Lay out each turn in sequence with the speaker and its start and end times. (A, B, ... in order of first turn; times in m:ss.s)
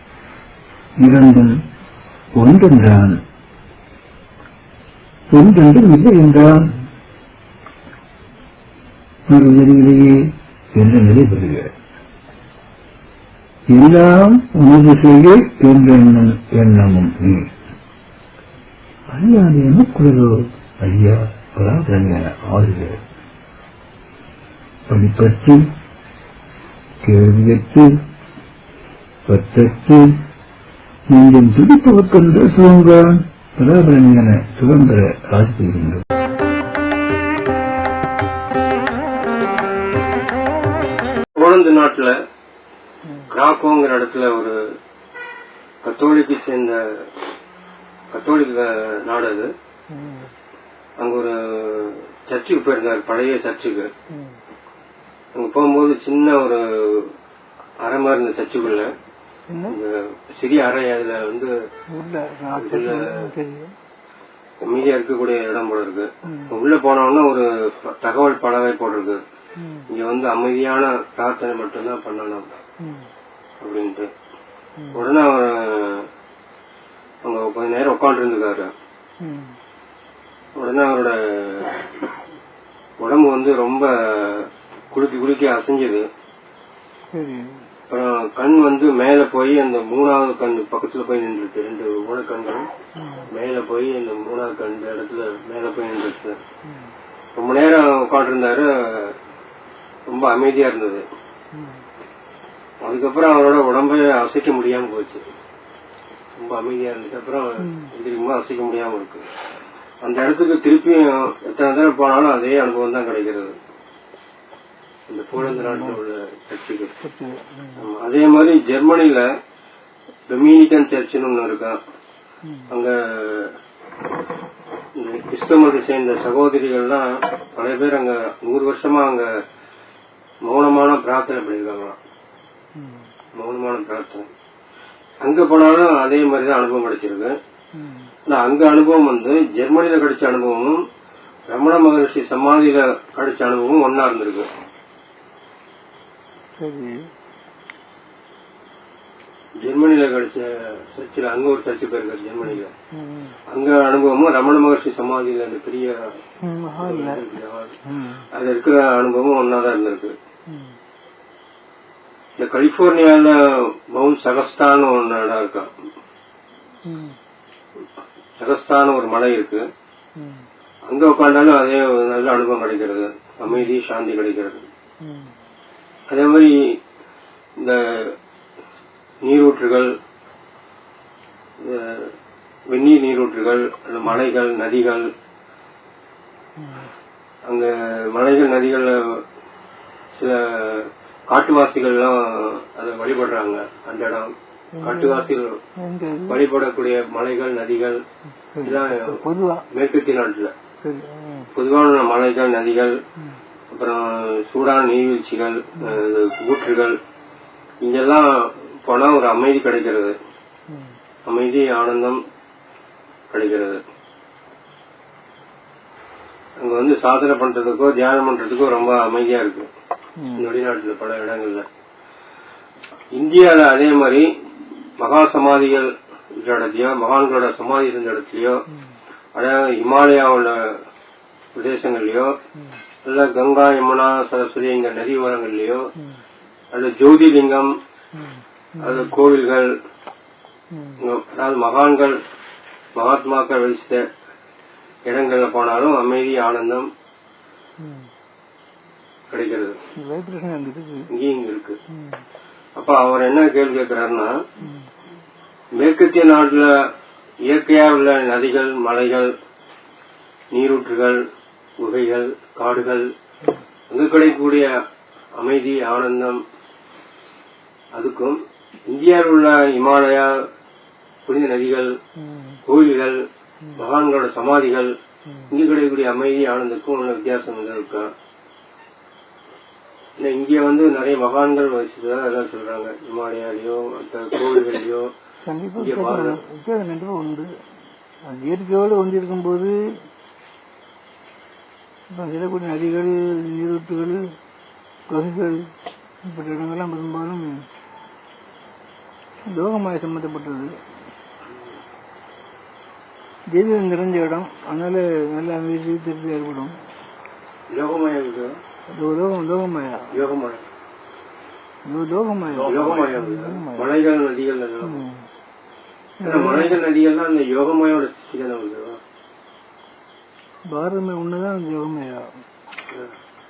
0:01.0-0:01.6 A
0:02.4-0:03.2 A
0:05.3-0:06.7 A
0:09.3-0:11.7 A
0:13.7-0:17.5 A
0:19.1-0:23.0 A
0:24.9-0:25.7 A
0:27.0-0:27.9 A
0:29.3-0:30.2 A
0:31.1-0:36.0 A
0:41.4-0:42.2 B
0:43.3-0:44.6 B
0:45.8-0:47.1 B
0:48.1-0:49.5 B
0:49.9-0:50.3 C
0:51.0-0:53.9 B
0:55.3-0:57.1 B
0:57.8-0:58.9 B
0:59.5-0:59.8 C
0:59.7-1:01.5 B
1:01.9-1:03.7 C
1:02.5-1:03.2 B
1:04.6-1:09.2 B
1:06.3-1:06.5 C
1:09.6-1:09.9 C
1:09.9-1:12.5 B
1:13.6-1:14.1 B
1:14.9-1:16.1 B
1:17.2-1:18.7 B
1:19.2-1:19.5 C
1:20.6-1:21.9 B
1:23.0-1:26.1 B
1:27.1-1:27.6 C
1:27.9-1:32.7 B
1:33.0-1:33.3 C
1:33.3-1:36.4 B
1:37.4-1:39.2 B
1:40.1-1:41.1 B
1:42.8-1:45.2 B
1:46.4-1:49.2 B
1:47.6-1:47.9 C
1:50.0-1:53.6 B
1:55.1-1:56.9 B
1:55.4-1:56.0 C
1:57.0-1:57.9 C
1:57.8-1:59.3 B
2:00.3-2:01.8 B
2:02.7-2:03.6 B
2:05.0-2:09.2 B
2:10.4-2:12.0 B
2:12.8-2:13.0 C
2:13.4-2:14.3 B
2:15.2-2:17.4 B
2:17.8-2:18.1 C
2:18.2-2:20.8 B
2:21.5-2:24.5 B
2:26.6-2:26.9 C
2:29.6-2:32.7 B
2:32.9-2:33.3 C
2:33.5-2:36.0 B
2:36.4-2:37.3 C
2:36.8-2:37.8 B
2:37.9-2:38.2 C
2:38.3-2:40.1 B
2:42.4-2:45.7 B
2:46.9-2:47.1 C
2:48.4-2:49.7 B
2:50.9-2:54.6 B
2:55.0-2:55.3 C
2:56.1-2:56.8 B
2:57.6-2:58.2 B
2:59.2-2:59.9 B
3:01.6-3:02.1 B
3:02.7-3:05.1 B
3:07.5-3:09.2 B
3:10.2-3:15.5 B
3:14.8-3:15.3 C
3:15.8-3:16.4 C
3:16.3-3:18.0 B
3:18.5-3:19.6 C
3:18.6-3:19.2 B
3:19.7-3:20.5 B
3:20.8-3:21.5 C
3:21.6-3:23.0 B
3:23.7-3:27.0 B
3:27.8-3:30.2 B
3:31.2-3:32.2 B
3:33.3-3:33.8 B
3:36.6-3:39.7 B
3:40.2-3:40.5 C
3:40.4-3:41.7 B
3:43.2-3:44.3 B
3:45.0-3:48.6 B
3:49.3-3:50.8 B
3:51.6-3:52.3 B
3:53.0-3:55.9 B
3:56.7-3:57.7 B
3:58.8-3:59.7 B
4:01.0-4:02.2 B
4:03.0-4:04.0 B
4:05.1-4:06.9 B
4:09.3-4:09.8 B
4:10.0-4:11.1 C
4:11.1-4:11.8 B
4:12.8-4:14.3 B
4:15.8-4:16.7 B
4:17.4-4:19.3 B
4:20.5-4:21.2 B
4:21.8-4:23.1 B
4:23.9-4:24.7 B
4:25.4-4:26.4 B
4:27.9-4:30.3 B
4:31.3-4:31.9 B
4:32.2-4:32.6 C
4:32.7-4:33.2 B
4:33.8-4:34.9 B
4:35.5-4:38.1 B
4:40.2-4:45.1 B
4:45.4-4:47.5 C
4:45.8-4:46.4 B
4:48.3-4:49.7 C
4:52.1-4:54.2 C
4:55.1-4:55.7 C
4:56.2-4:57.5 C
4:59.5-5:00.8 C
5:03.5-5:06.8 C
5:07.7-5:08.5 B
5:08.9-5:10.2 C
5:10.1-5:10.6 B
5:11.9-5:13.9 C
5:12.6-5:15.0 B
5:14.8-5:15.2 C
5:16.2-5:16.8 C
5:16.2-5:19.0 B
5:20.7-5:22.2 C